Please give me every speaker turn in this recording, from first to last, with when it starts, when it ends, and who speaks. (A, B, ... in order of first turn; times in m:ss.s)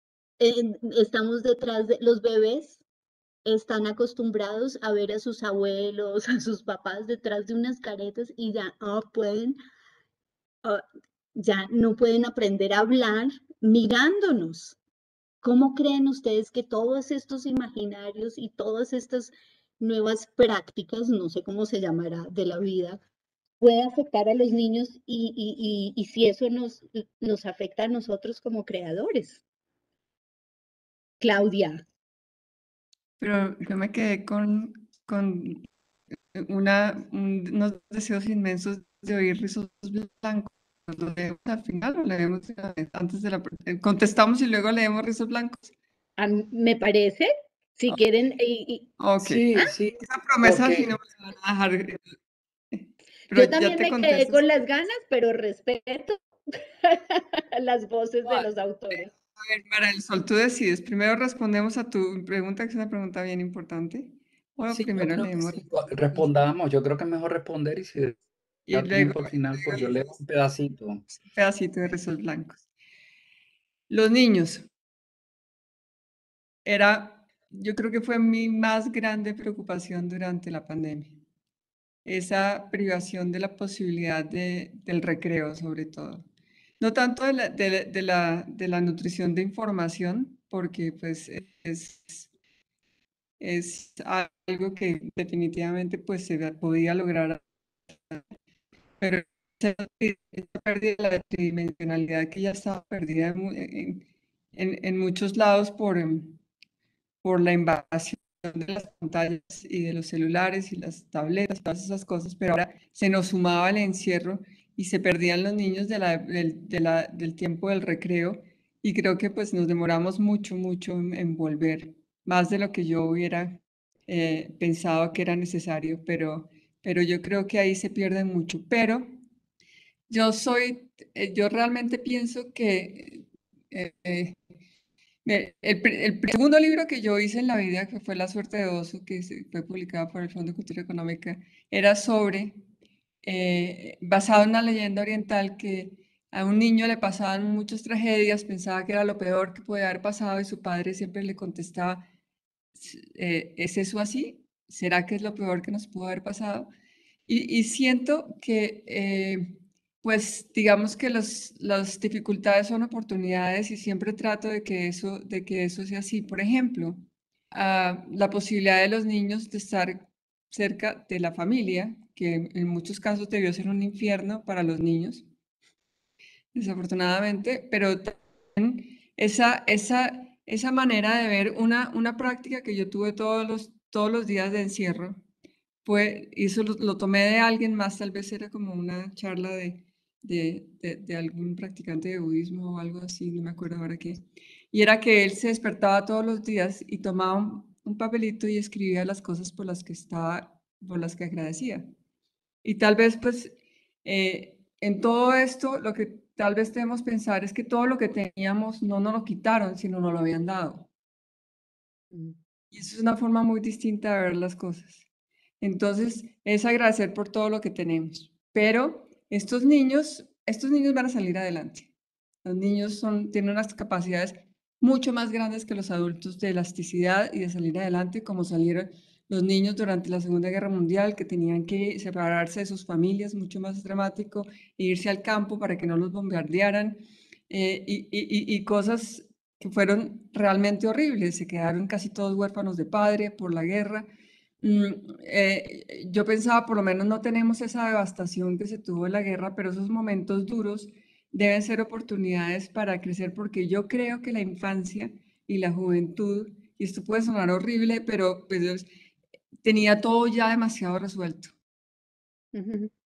0:00.4-0:02.8 A
0:03.4-0:09.6 A
0:11.4-0:14.8 A
0:15.4-0:23.0 A
0:23.6-0:29.4 A
0:31.2-0:31.8 A
0:33.2-0:35.7 B
0:36.3-0:45.7 B
0:46.2-0:48.9 A
0:49.0-0:52.2 B
0:49.2-0:50.9 C
0:52.7-0:54.4 B
0:53.3-0:56.2 A
0:56.8-0:59.1 A
0:59.4-1:06.3 B
1:04.7-1:08.2 C
1:08.7-1:10.0 B
1:08.7-1:11.0 C
1:11.2-1:12.6 B
1:13.9-1:14.7 B
1:16.6-1:21.2 B
1:22.0-1:26.2 B
1:26.8-1:32.3 B
1:33.4-1:38.2 B
1:39.0-1:46.4 B
1:47.2-2:09.2 B
2:10.1-2:14.4 B
2:15.2-2:22.6 B
2:23.2-2:32.1 B
2:32.7-2:36.7 B
2:37.3-2:55.2 B
2:56.5-3:05.2 B
3:05.8-3:21.9 B
3:22.6-3:30.9 B
3:32.7-3:35.0 B
3:35.6-3:41.9 B
3:42.4-4:04.1 B
4:04.6-4:18.9 B
4:19.6-4:21.5 B
4:22.5-4:22.9 A